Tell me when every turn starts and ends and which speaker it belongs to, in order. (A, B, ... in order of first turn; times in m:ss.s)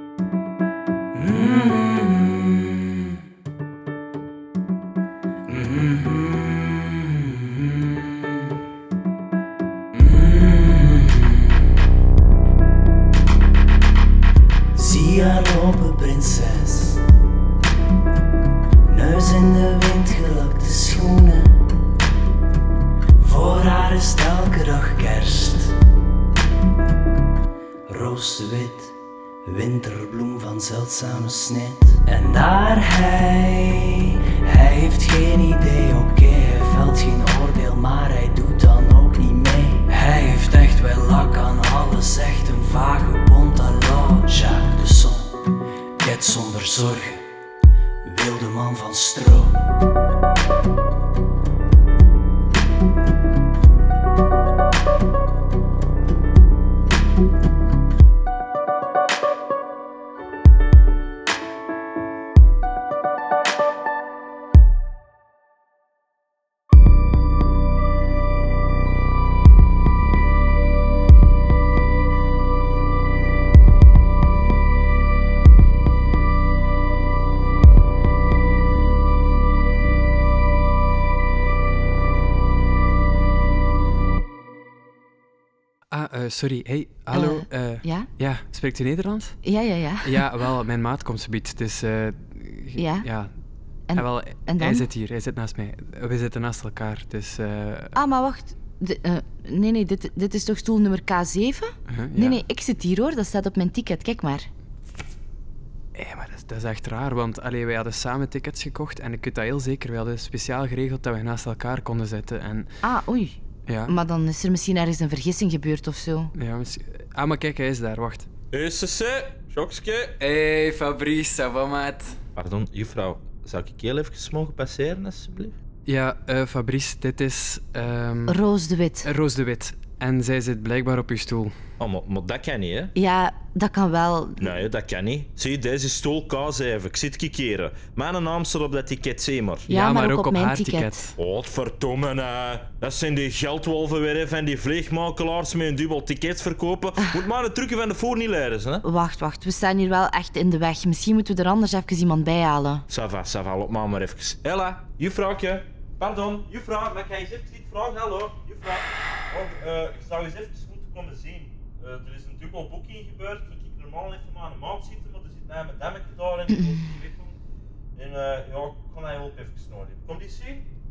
0:01.1-0:03.2 A
0:05.4-0:08.6 A
0:09.9-0:11.6 A
0:14.7-0:17.0 A
0:18.8-0:21.6 A
0:23.2-0:25.8 A
0:27.9-0:47.2 A
0:48.0-0:49.6 A
1:25.9-1:29.4 B
1:27.1-1:28.1 C
1:29.4-1:30.3 C
1:30.0-1:33.3 B
1:32.8-1:33.1 C
1:33.9-1:34.8 C
1:33.9-1:38.0 B
1:37.9-1:44.5 C
1:41.9-1:42.4 B
1:45.9-1:52.7 B
1:52.8-1:56.3 C
1:53.7-1:53.9 B
1:56.3-1:58.3 B
1:58.5-2:00.2 D
2:00.2-2:02.2 B
2:02.4-2:05.5 D
2:05.8-2:08.4 B
2:08.3-2:09.1 C
2:09.0-2:11.6 B
2:11.8-2:12.9 D
2:12.9-2:14.6 C
2:14.4-2:19.7 D
2:19.7-2:21.1 C
2:19.7-2:21.2 B
2:21.2-2:28.8 D
2:28.8-2:32.8 C
2:32.9-2:47.3 D
2:48.0-2:50.7 D